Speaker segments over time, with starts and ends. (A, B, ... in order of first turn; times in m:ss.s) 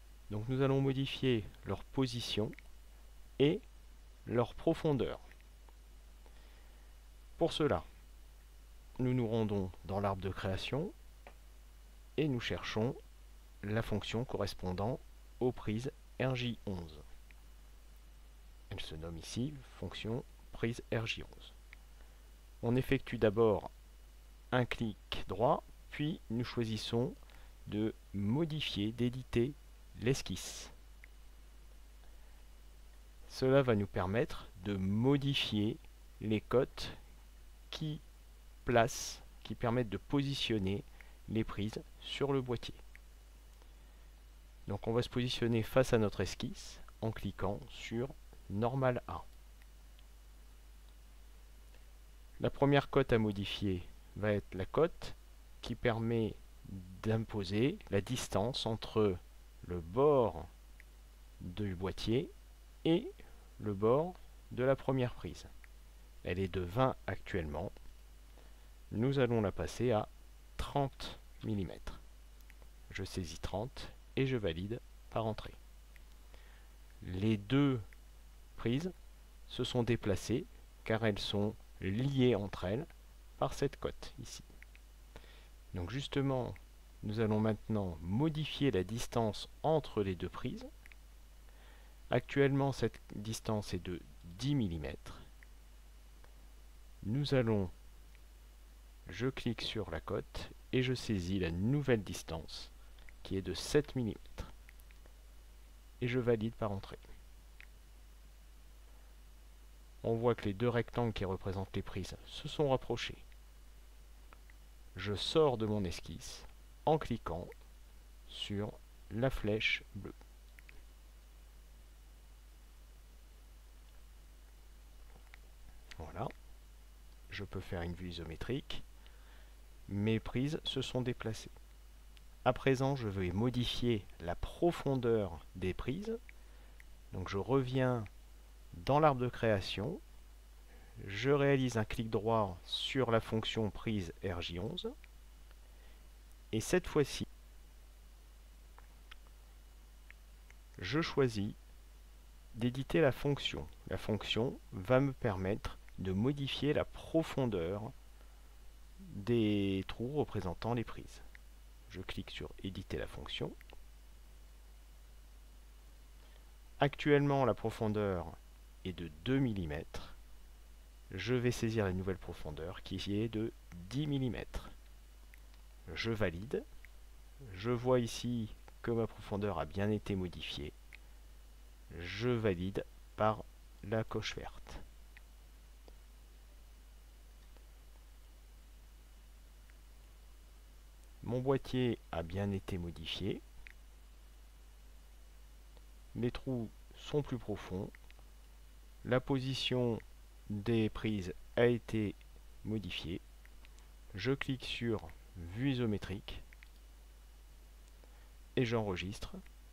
0:00.3-0:02.6 A
0:03.4-0:03.6 A
0:04.3-0:05.2 A
0:07.4-0:07.9 A
0:09.0-0:10.9 A
0:12.2-0:13.0 A
0:13.6-0:17.0 A
0:18.7-0:21.6 A
0:22.6-0:23.7 A
0:24.5-0:30.7 A
0:33.3-0:37.0 A
0:37.7-0:38.0 A
0:38.6-0:42.8 A
0:44.7-0:49.3 A
0:52.4-1:00.5 A
1:01.4-1:02.3 A
1:02.8-1:05.5 A
1:06.2-1:07.7 A
1:08.9-1:12.0 A
1:12.9-1:15.6 A
1:17.0-1:17.8 A
1:18.6-1:18.9 A
1:19.5-1:24.5 A
1:25.7-1:30.7 A
1:32.1-1:35.2 A
1:37.0-1:37.7 A
1:39.1-1:42.7 A
1:43.2-1:44.5 A
1:46.0-1:47.0 A
1:50.0-1:53.2 A
1:55.0-1:57.5 A
1:58.3-2:00.1 A
2:06.0-2:06.3 A
2:07.3-2:08.8 A
2:09.9-2:11.5 A
2:12.4-2:16.2 A
2:17.1-2:18.1 A
2:18.8-2:20.0 A
2:21.0-2:24.9 A
2:26.5-2:27.3 A
2:30.8-2:31.6 A
2:32.5-2:37.9 A
2:39.0-2:41.2 A
2:41.9-2:43.6 A
2:46.8-2:50.2 A
2:51.1-2:54.8 A
2:55.9-2:56.6 A
2:57.5-3:00.8 A
3:01.9-3:04.8 A
3:11.2-3:13.4 A
3:16.1-3:17.9 A
3:19.0-3:23.2 A
3:24.1-3:26.4 A
3:28.6-3:29.4 A